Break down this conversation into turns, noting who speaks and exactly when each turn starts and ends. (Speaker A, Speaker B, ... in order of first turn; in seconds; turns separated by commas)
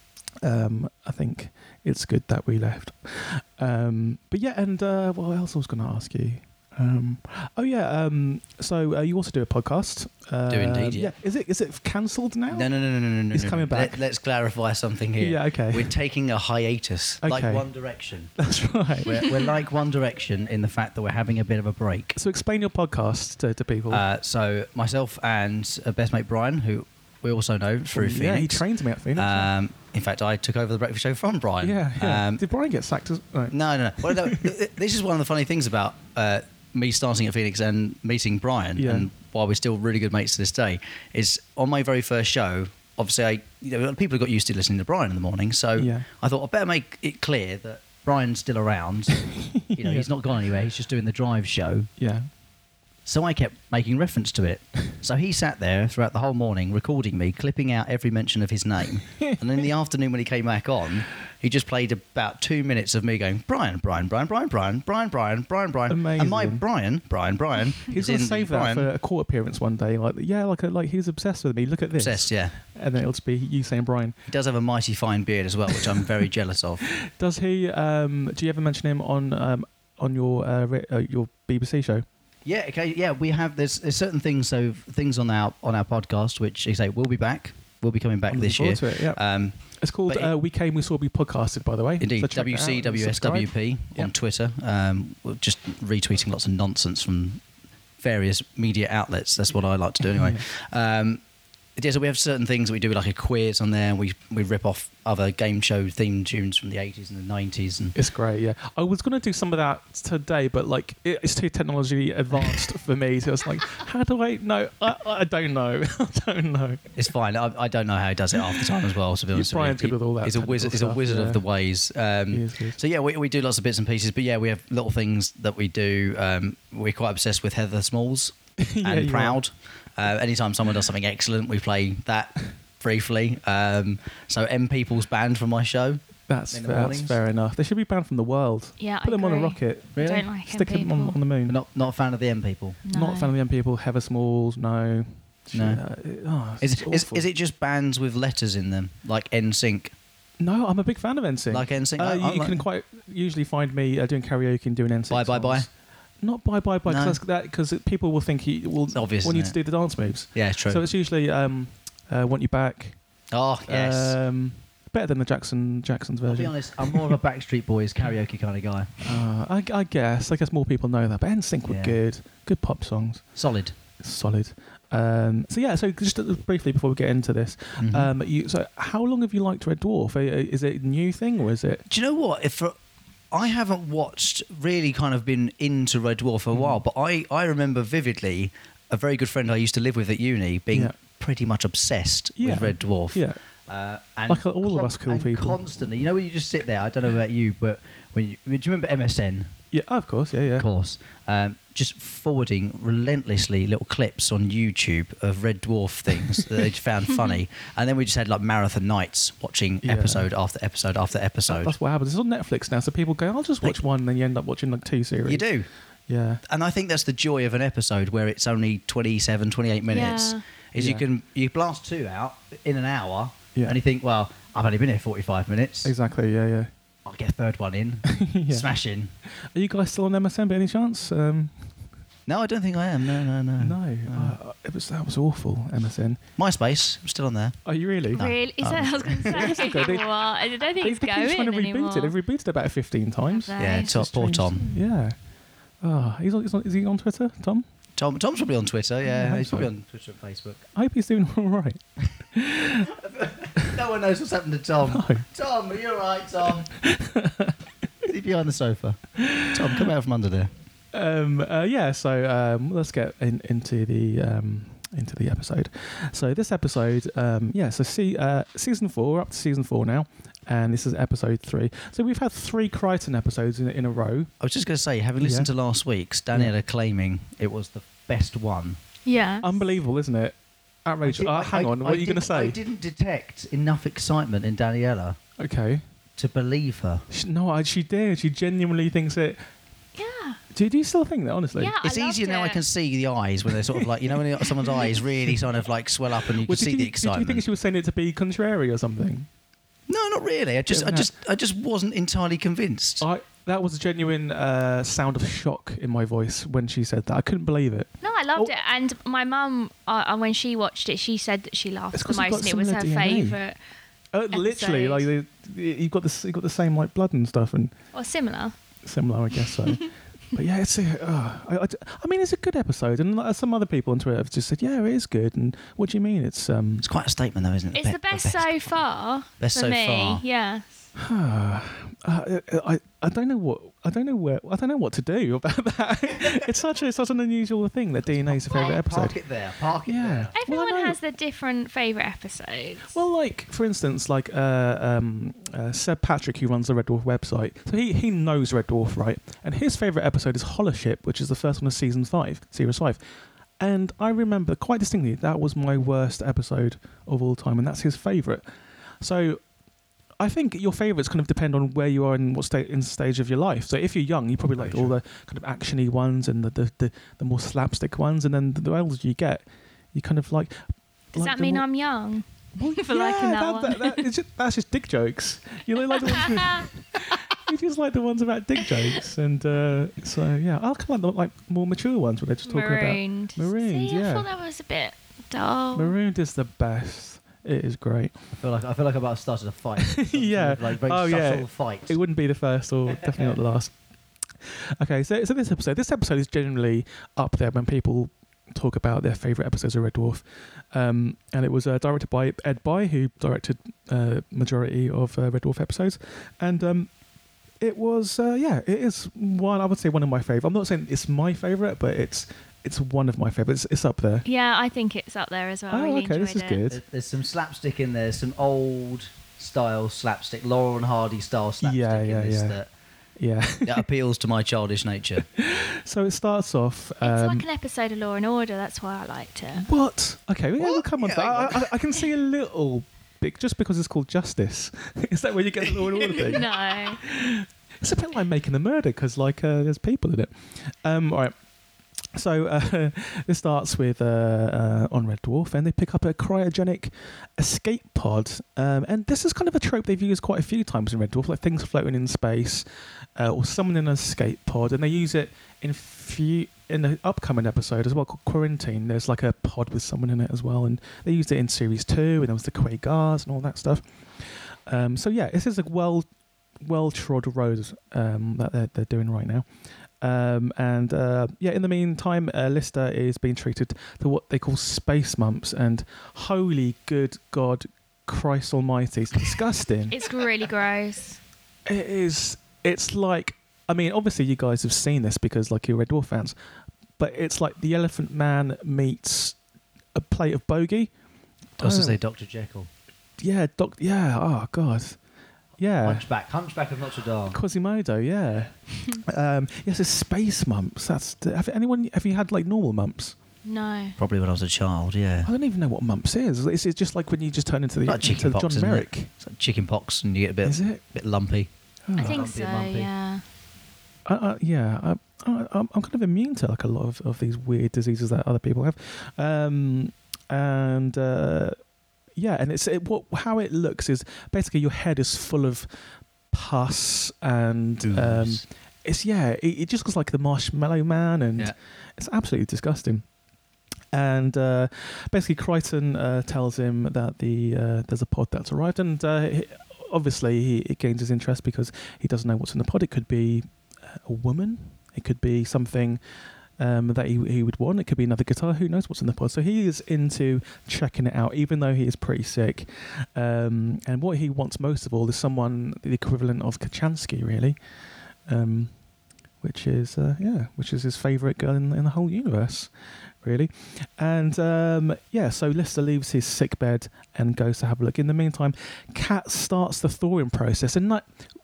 Speaker A: 0.4-12.7, Speaker B: 10.5-11.1, Speaker B: 12.5-18.3, Speaker A: 13.3-14.0, Speaker A: 15.2-15.9, Speaker A: 17.2-17.6, Speaker A: 18.4-19.4, Speaker B: 19.0-22.1, Speaker A: 22.1-24.0, Speaker B: 23.9-28.6, Speaker A: 27.9-29.5, Speaker B: 29.1-32.4, Speaker A: 31.6-34.5, Speaker B: 33.5-49.2, Speaker A: 38.8-39.1, Speaker A: 45.8-46.1, Speaker A: 49.3-50.1, Speaker B: 49.8-51.9, Speaker A: 52.0-52.3, Speaker B: 53.0-68.9, Speaker A: 65.9-66.6, Speaker A: 67.9-74.2, Speaker B: 72.0-72.5, Speaker B: 74.3-76.8, Speaker A: 77.1-82.0, Speaker B: 82.4-89.5, Speaker A: 88.3-89.2, Speaker A: 89.8-94.1, Speaker B: 90.1-90.3, Speaker B: 92.0-97.4, Speaker B: 98.0-101.2, Speaker A: 100.0-100.4, Speaker B: 101.8-107.9, Speaker A: 107.9-116.9, Speaker B: 117.0-137.2, Speaker A: 119.3-121.4, Speaker A: 122.3-122.8, Speaker A: 128.6-129.4, Speaker A: 136.3-139.9, Speaker C: 138.8-141.2, Speaker B: 139.9-140.3, Speaker A: 140.5-141.6, Speaker B: 141.5-142.8, Speaker C: 142.8-143.3, Speaker A: 142.9-147.2, Speaker B: 145.5-145.8, Speaker B: 146.6-149.9, Speaker A: 150.4-155.7, Speaker B: 151.5-152.6, Speaker B: 155.1-155.7, Speaker A: 156.2-163.0, Speaker B: 156.8-157.2, Speaker B: 158.9-159.5, Speaker B: 160.3-160.8, Speaker B: 163.3-164.2, Speaker A: 163.7-167.1, Speaker B: 166.3-169.0, Speaker A: 169.0-173.2, Speaker B: 171.7-171.9, Speaker B: 173.3-173.7, Speaker A: 174.0-181.8, Speaker B: 177.8-178.1, Speaker B: 181.9-182.7, Speaker B: 183.3-199.5, Speaker A: 186.5-186.8, Speaker A: 192.4-193.4, Speaker A: 194.3-195.6, Speaker A: 199.7-200.6, Speaker B: 200.6-211.7, Speaker A: 209.8-210.3, Speaker A: 211.5-215.5, Speaker B: 215.2-215.7, Speaker A: 216.1-216.4, Speaker B: 216.5-225.9, Speaker C: 219.9-220.4, Speaker A: 220.8-221.0, Speaker A: 225.8-226.7, Speaker B: 227.1-229.1, Speaker A: 228.1-228.7, Speaker A: 229.5-231.5, Speaker B: 232.3-234.3, Speaker A: 233.6-236.2, Speaker B: 236.4-237.6, Speaker A: 237.7-238.3, Speaker C: 238.1-242.1, Speaker B: 238.1-239.5, Speaker A: 239.2-240.1, Speaker A: 240.8-245.1, Speaker C: 243.3-244.0, Speaker B: 243.6-244.7, Speaker A: 245.8-247.6, Speaker B: 248.0-250.6, Speaker A: 249.1-249.7, Speaker A: 250.7-251.8, Speaker A: 252.3-252.9, Speaker B: 252.9-256.7, Speaker A: 254.9-255.2, Speaker A: 256.8-257.5, Speaker B: 258.0-260.5, Speaker A: 259.2-259.9, Speaker A: 260.9-274.3, Speaker B: 274.4-278.8, Speaker A: 275.2-275.5, Speaker C: 279.0-279.5, Speaker A: 279.4-282.6, Speaker B: 281.0-285.2, Speaker A: 285.4-285.8, Speaker B: 286.2-287.1, Speaker A: 287.1-289.4, Speaker C: 289.9-290.4, Speaker A: 290.5-291.7, Speaker C: 291.6-292.6, Speaker B: 291.8-297.4, Speaker A: 293.7-295.4, Speaker A: 296.4-299.3, Speaker B: 299.9-303.0, Speaker A: 300.7-301.1, Speaker A: 303.0-308.5, Speaker C: 308.0-313.6, Speaker A: 311.9-313.4, Speaker A: 314.1-317.7, Speaker C: 314.3-315.1, Speaker C: 317.9-318.5, Speaker A: 318.8-326.9, Speaker B: 326.8-328.7, Speaker C: 327.7-330.9, Speaker B: 329.4-330.2, Speaker A: 331.0-339.1, Speaker B: 338.1-340.3, Speaker A: 339.9-341.0, Speaker C: 340.4-342.9, Speaker A: 342.9-353.0, Speaker A: 353.6-358.4, Speaker A: 359.0-359.4, Speaker A: 360.2-370.6, Speaker B: 364.5-364.9, Speaker A: 371.1-371.6, Speaker C: 371.1-374.1, Speaker A: 372.6-384.3, Speaker C: 375.9-376.7, Speaker C: 382.4-385.9, Speaker A: 385.7-388.1, Speaker B: 388.4-391.9, Speaker A: 389.8-393.7, Speaker B: 393.0-393.4, Speaker A: 394.4-406.9, Speaker A: 407.6-414.3, Speaker C: 414.2-416.6, Speaker A: 415.7-416.8, Speaker B: 416.7-422.7, Speaker A: 421.6-422.6, Speaker A: 423.2-423.8, Speaker B: 423.6-425.2, Speaker A: 425.3-427.4, Speaker C: 427.0-429.7, Speaker A: 429.6-441.3, Speaker B: 430.6-431.7, Speaker B: 435.9-436.3, Speaker C: 436.2-437.0, Speaker A: 442.1-452.6, Speaker A: 453.1-463.8, Speaker A: 464.7-466.1, Speaker A: 466.6-469.4, Speaker A: 470.0-480.0, Speaker C: 479.9-481.2, Speaker A: 481.6-486.3, Speaker A: 487.0-489.4, Speaker A: 489.9-490.9, Speaker A: 491.6-492.0, Speaker B: 491.6-492.7, Speaker A: 493.2-495.0, Speaker A: 495.6-496.0, Speaker B: 495.8-497.4, Speaker A: 497.3-503.1, Speaker C: 503.4-503.9, Speaker B: 504.0-505.3, Speaker A: 505.2-509.1, Speaker B: 507.9-512.9, Speaker A: 510.4-510.8, Speaker A: 511.9-512.2, Speaker C: 512.0-513.2, Speaker A: 514.0-521.6, Speaker A: 522.2-525.7, Speaker A: 526.3-533.0, Speaker B: 527.8-528.4, Speaker A: 533.9-543.5, Speaker A: 544.0-546.0, Speaker A: 546.6-557.6, Speaker A: 558.3-558.7, Speaker A: 559.4-562.7, Speaker A: 563.2-571.0